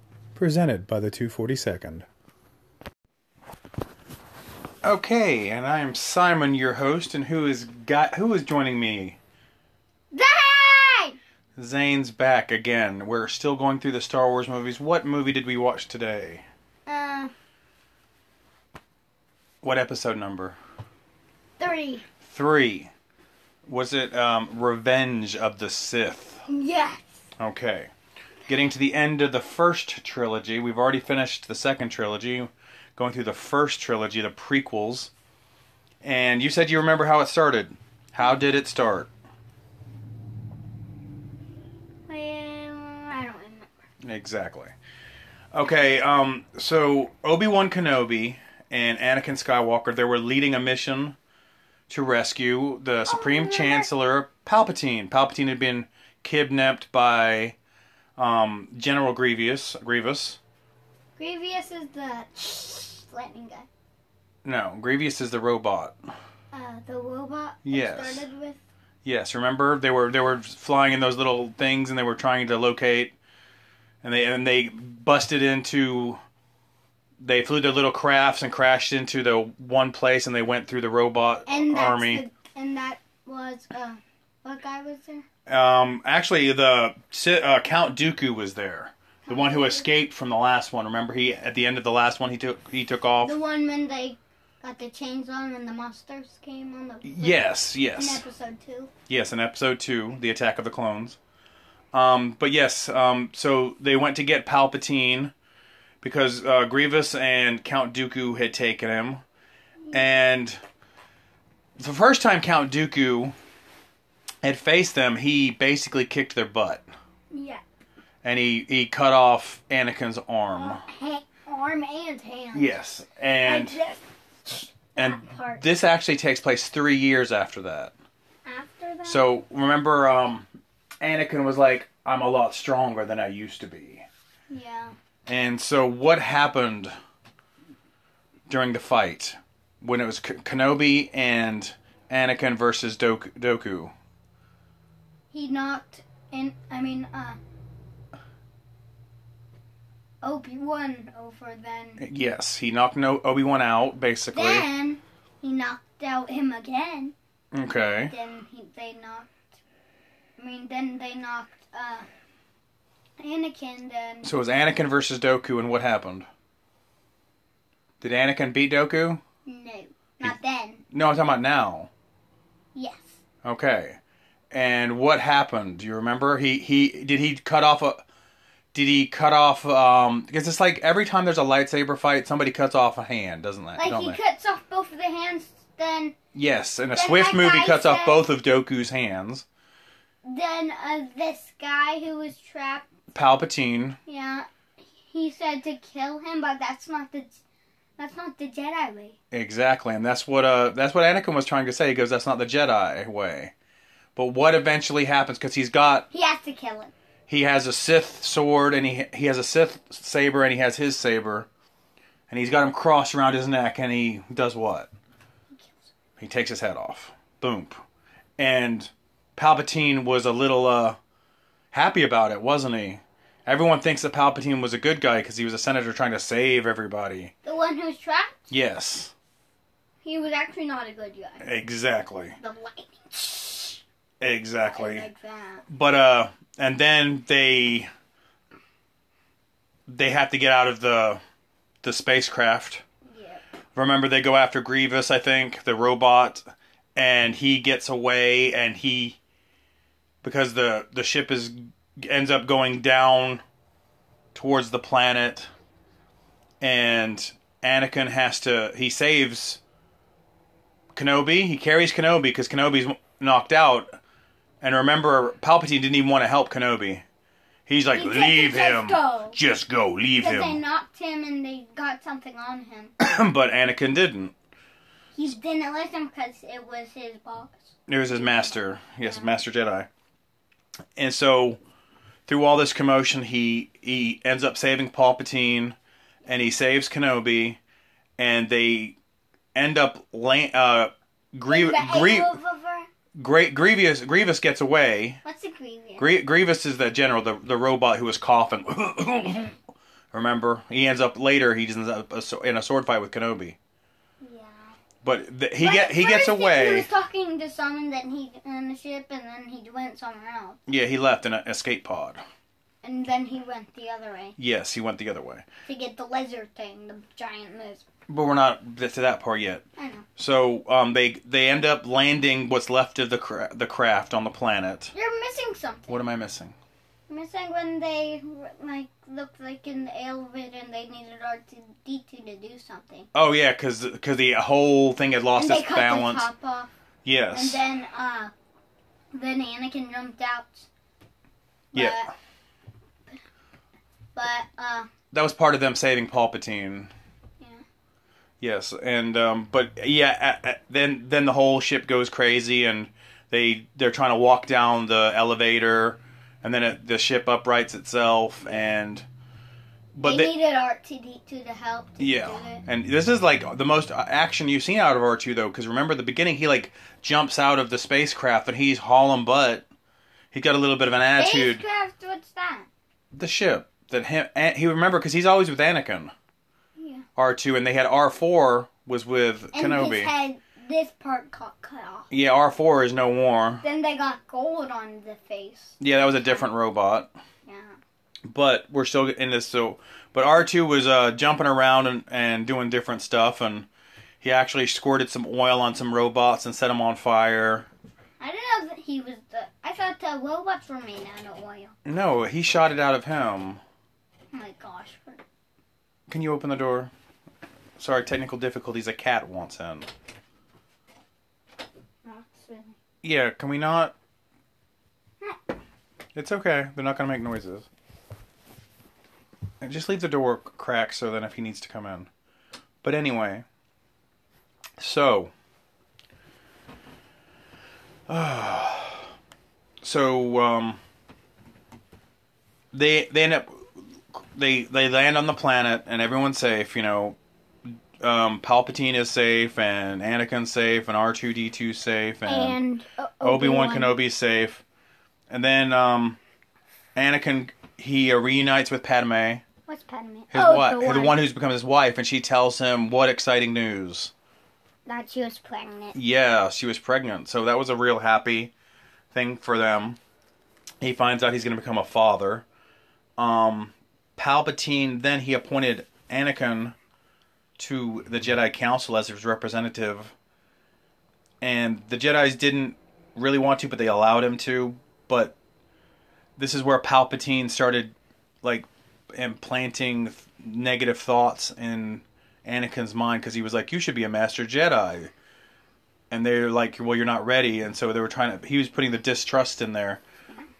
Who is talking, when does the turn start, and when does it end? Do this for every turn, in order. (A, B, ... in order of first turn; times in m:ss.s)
0:00.4-0:02.0 A
0:04.8-0:09.2 A
0:10.1-0:11.2 B
0:11.6-0:16.4 A
0:16.8-0:17.3 B
0:19.6-0:20.6 A
0:21.6-0:22.0 B
0:22.2-0:22.9 A
0:23.6-0:26.4 A
0:26.5-0:27.0 B
0:27.4-0:27.9 A
0:28.5-0:35.1 A
0:36.0-0:39.1 A
0:42.1-0:43.7 B
0:44.0-0:44.7 A
0:45.5-0:51.2 A
0:51.9-0:57.6 A
0:53.1-0:53.9 B
0:58.2-1:00.4 A
1:01.2-1:03.7 B
1:04.4-1:06.0 A
1:06.5-1:08.6 B
1:07.6-1:08.3 A
1:09.0-1:13.1 A
1:14.0-1:16.2 A
1:17.2-1:22.2 A
1:21.5-1:25.2 B
1:25.5-1:33.4 A
1:29.2-1:29.8 B
1:33.2-1:38.9 B
1:37.0-1:38.2 A
1:39.1-1:41.2 A
1:41.9-1:45.3 A
1:46.0-1:49.2 A
1:49.9-1:50.6 A
1:51.8-1:53.3 A
1:54.4-1:56.9 A
1:57.3-1:57.6 B
1:58.2-2:00.8 A
2:00.5-2:02.8 B
2:02.5-2:03.8 A
2:03.4-2:05.6 B
2:05.0-2:07.9 A
2:08.4-2:09.3 B
2:09.0-2:10.5 A
2:11.0-2:14.0 A
2:14.5-2:14.9 B
2:15.3-2:16.9 A
2:18.5-2:23.9 A
2:25.3-2:27.4 B
2:30.2-2:32.0 B
2:32.0-2:34.6 A
2:34.3-2:37.1 B
2:37.5-2:38.1 A
2:38.1-2:39.4 B
2:40.4-2:42.1 B
2:43.2-2:44.3 B
2:44.2-2:46.3 A
2:48.0-2:49.2 A
2:49.4-2:50.8 B
2:50.9-2:51.9 A
2:52.7-2:53.2 B
2:53.4-2:54.0 A
2:54.5-2:58.0 A
2:58.7-3:04.2 A
3:03.8-3:06.2 B
3:06.3-3:09.4 A
3:06.9-3:08.2 B
3:10.2-3:12.9 B
3:13.1-3:14.0 A
3:14.0-3:17.4 B
3:18.0-3:19.2 B
3:19.3-3:23.5 A
3:24.2-3:26.0 A
3:26.1-3:26.9 B
3:27.3-3:31.5 A
3:32.3-3:34.9 A
3:35.6-3:35.9 B
3:36.2-3:37.8 A
3:38.4-3:41.0 A
3:41.7-3:47.3 A
3:47.4-3:48.5 B
3:48.5-3:49.1 A
3:50.0-3:51.4 B
3:51.4-3:52.4 A
3:52.4-3:53.8 B
3:54.2-3:55.1 A
3:54.6-3:55.6 B
3:55.7-3:57.9 A
3:59.9-4:01.2 A
4:01.8-4:02.8 A
4:03.0-4:03.4 B
4:03.7-4:06.4 A
4:07.0-4:09.2 A
4:10.2-4:13.4 A
4:14.3-4:15.5 A
4:16.6-4:19.6 A
4:20.9-4:23.9 A
4:24.6-4:27.0 A
4:27.7-4:30.6 A
4:27.9-4:29.4 B
4:30.2-4:32.9 B
4:33.0-4:34.3 A
4:35.2-4:39.3 B
4:37.9-4:39.9 A
4:41.0-4:41.6 A
4:42.3-4:47.6 A
4:48.2-4:49.0 A
4:49.5-4:52.4 A
4:51.5-4:52.9 B
4:53.1-4:55.2 A
4:55.2-4:56.1 B
4:56.0-4:59.6 A
5:00.1-5:03.6 A
5:04.2-5:04.7 B
5:05.0-5:06.9 A
5:05.6-5:10.6 B
5:10.7-5:12.2 A
5:12.8-5:14.4 B
5:14.4-5:15.4 A
5:15.6-5:17.8 B
5:18.1-5:19.6 A
5:19.8-5:20.0 B
5:20.2-5:24.9 A
5:24.9-5:26.0 B
5:25.9-5:26.5 A
5:27.1-5:33.1 B
5:33.1-5:36.3 A
5:35.4-5:36.7 B
5:37.0-5:37.6 A
5:37.3-5:38.3 B
5:39.1-5:40.7 B
5:41.7-5:42.0 A
5:41.7-5:42.1 B
5:44.1-5:44.9 B
5:45.1-5:46.9 A
5:48.4-5:59.0 A
5:59.9-6:00.3 A
6:00.0-6:02.6 B
6:02.0-6:09.6 A
6:10.3-6:11.6 A
6:11.2-6:12.7 B
6:13.1-6:16.1 A
6:16.8-6:17.0 B
6:17.2-6:20.1 A
6:19.5-6:22.1 B
6:22.1-6:23.6 A
6:23.6-6:26.4 B
6:25.8-6:27.1 A
6:27.4-6:27.7 B
6:28.2-6:33.7 A
6:34.2-6:37.7 A
6:38.2-6:41.7 B
6:41.8-6:43.6 A
6:44.3-6:45.2 B
6:46.1-6:46.9 A
6:47.8-6:49.9 A
6:52.0-6:52.8 B
6:53.0-6:53.9 A
6:56.1-6:57.7 A
6:59.6-7:02.1 A
7:02.8-7:03.4 A
7:04.8-7:05.3 A
7:08.1-7:09.1 A
7:09.8-7:10.8 A
7:12.7-7:17.2 A
7:18.0-7:22.6 A
7:22.2-7:24.0 B
7:23.2-7:24.6 A
7:25.3-7:26.2 A
7:26.9-7:29.4 A
7:29.7-7:31.2 B
7:30.3-7:34.1 A
7:34.8-7:36.0 B
7:35.9-7:38.5 A
7:39.1-7:40.0 A
7:40.8-7:42.4 A
7:43.2-7:46.7 A
7:47.6-7:50.1 A
7:51.4-7:55.3 A
7:56.4-8:05.1 A
8:06.1-8:10.0 A